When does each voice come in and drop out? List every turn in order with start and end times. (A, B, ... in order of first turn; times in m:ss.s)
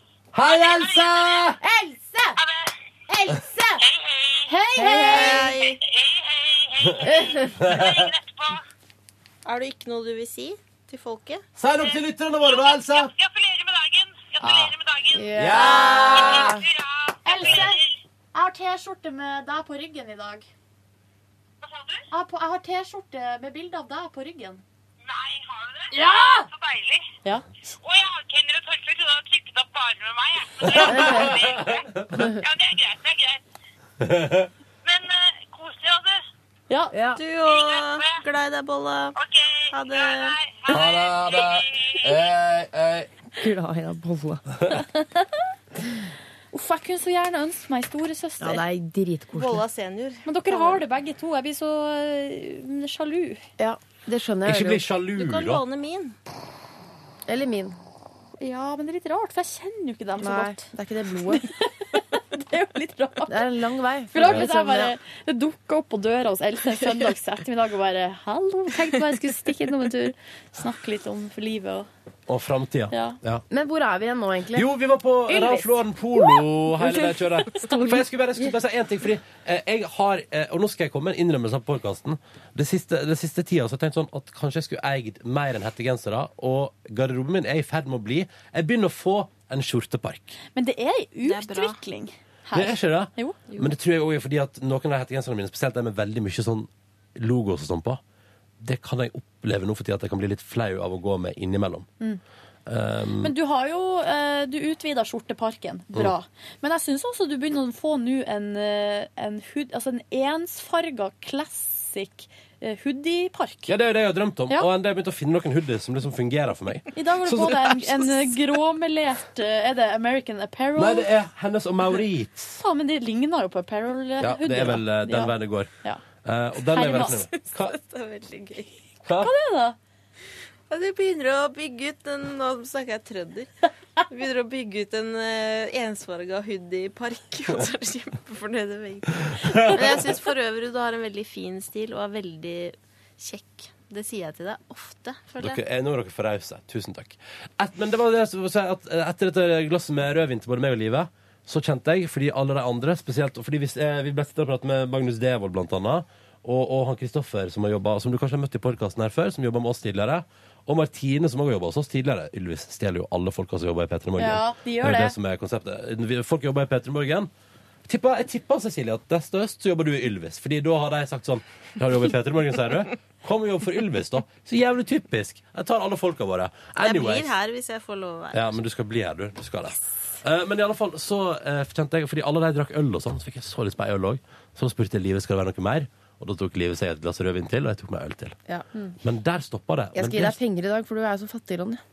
0:00.3-0:01.6 A
0:00.4-0:01.5 B
0:01.6-0:02.4 C
0:02.4-0:02.7 B
0:03.1-0:03.8 C
0:03.8-0:04.5 B
0:04.5-0:05.4 D
0:04.7-0:05.7 C
0:05.0-0:05.8 E
0:05.8-0:08.6 B
0:07.1-0:07.5 C
0:07.6-0:08.1 A
0:09.4-0:11.4 E
0:11.6-0:13.1 A
0:11.8-0:15.3 B
0:14.4-0:14.7 A
0:15.1-0:16.6 C
0:15.3-0:16.5 A
0:15.6-0:16.4 E
0:16.1-0:17.9 B
0:17.2-0:17.8 D
0:18.3-0:20.5 D
0:21.6-0:22.0 B
0:22.1-0:24.6 D
0:25.0-0:27.0 B
0:25.9-0:26.5 D
0:27.8-0:33.4 B
0:30.7-0:32.0 A
0:30.8-0:31.4 C
0:34.0-0:34.5 A
0:34.8-0:36.2 B
0:36.9-0:37.2 C
0:37.1-0:39.2 E
0:37.4-0:38.2 B
0:39.2-0:42.1 B
0:39.7-0:40.4 E
0:40.7-0:43.1 A
0:43.4-0:44.5 C
0:44.7-0:45.2 D
0:46.5-0:48.6 D
0:48.4-0:49.6 C
0:49.3-0:50.8 E
0:50.2-0:53.4 D
0:53.6-0:54.8 C
0:54.4-0:55.6 A
0:55.1-0:56.1 E
0:57.3-0:57.8 C
0:58.4-1:00.7 D
1:00.2-1:01.4 C
1:01.3-1:03.4 D
1:03.3-1:05.0 C
1:04.1-1:11.9 D
1:12.3-1:13.4 A
1:12.9-1:13.2 D
1:13.5-1:14.6 C
1:14.5-1:30.3 A
1:15.3-1:15.7 D
1:30.6-1:33.4 D
1:31.2-1:31.8 E
1:32.5-1:38.0 A
1:38.6-1:41.9 A
1:42.7-1:43.3 A
1:43.2-1:53.7 D
1:53.7-1:58.2 A
1:56.9-2:01.1 D
2:00.8-2:02.6 A
2:02.6-2:06.0 D
2:04.2-2:05.7 A
2:06.2-2:07.8 A
2:06.7-2:07.3 D
2:06.8-2:08.8 E
2:09.0-2:09.3 A
2:09.2-2:09.8 D
2:10.7-2:13.5 E
2:14.1-2:25.6 E
2:19.2-2:20.1 A
2:25.4-2:47.3 A
2:44.2-2:45.1 D
2:47.9-2:57.4 A
2:56.8-2:58.6 E
2:58.3-3:08.4 A
3:09.0-3:10.4 A
3:09.9-3:11.8 C